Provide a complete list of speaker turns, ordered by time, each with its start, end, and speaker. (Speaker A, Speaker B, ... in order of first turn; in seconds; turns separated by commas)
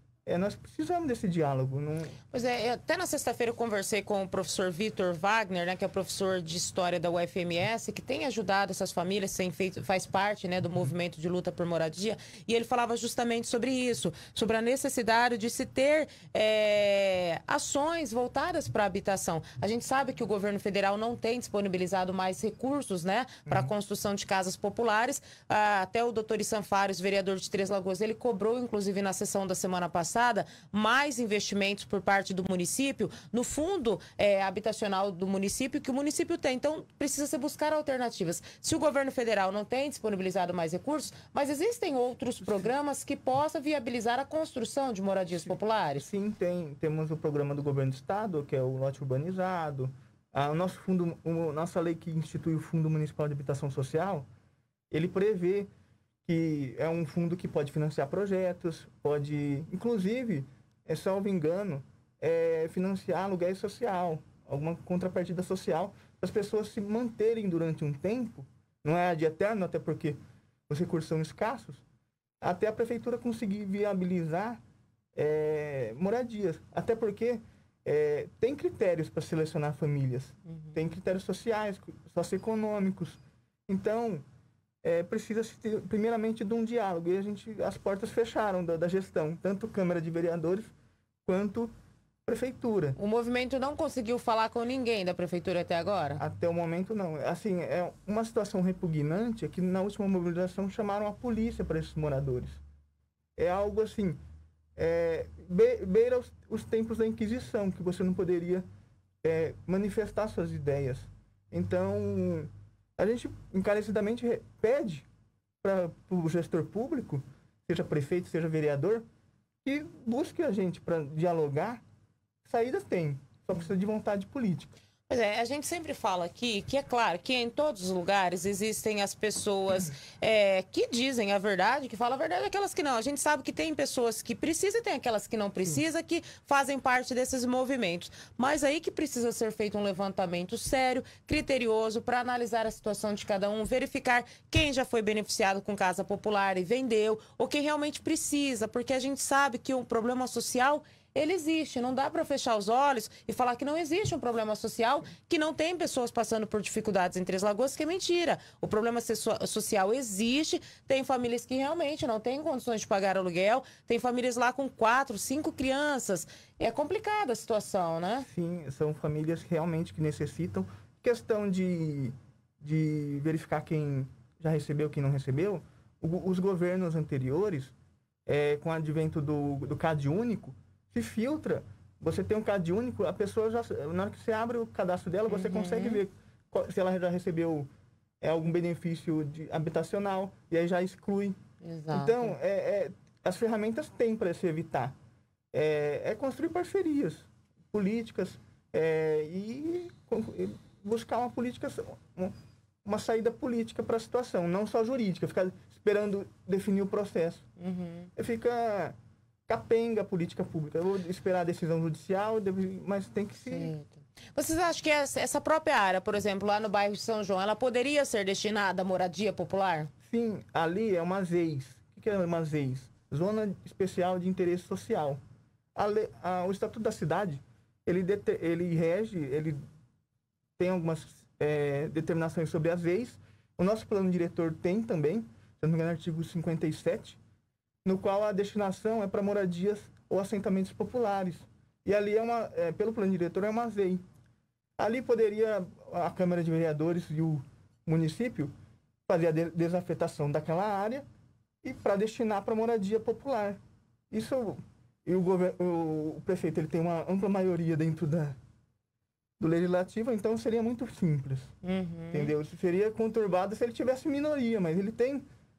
Speaker A: 0.2-2.2, Speaker B: 2.3-46.0, Speaker A: 23.4-23.7, Speaker A: 45.3-54.2, Speaker A: 54.9-55.7, Speaker A: 56.2-70.2, Speaker A: 70.7-71.8, Speaker A: 72.4-74.6, Speaker A: 75.2-84.2, Speaker B: 80.5-80.7, Speaker A: 84.8-90.7, Speaker A: 91.2-91.7, Speaker A: 92.2-93.0, Speaker B: 93.0-96.2, Speaker A: 96.2-102.6, Speaker A: 103.3-104.2, Speaker A: 104.8-108.6, Speaker A: 109.2-115.0, Speaker A: 115.6-119.0, Speaker A: 119.6-121.8, Speaker A: 122.4-124.7, Speaker B: 125.1-168.3, Speaker A: 168.3-177.7, Speaker A: 178.2-187.7, Speaker B: 185.3-186.0, Speaker A: 188.2-191.4, Speaker B: 191.6-192.3, Speaker A: 191.9-194.9, Speaker A: 195.5-207.4, Speaker B: 207.6-208.1, Speaker A: 208.2-208.9, Speaker A: 209.5-213.7, Speaker B: 213.4-219.9, Speaker A: 220.1-225.2, Speaker A: 225.7-229.6, Speaker A: 230.6-237.2, Speaker A: 237.8-244.0, Speaker A: 244.8-248.5, Speaker A: 249.1-251.1, Speaker A: 251.6-253.6, Speaker A: 254.1-258.4, Speaker A: 259.4-261.5, Speaker B: 261.6-262.3, Speaker A: 262.1-265.2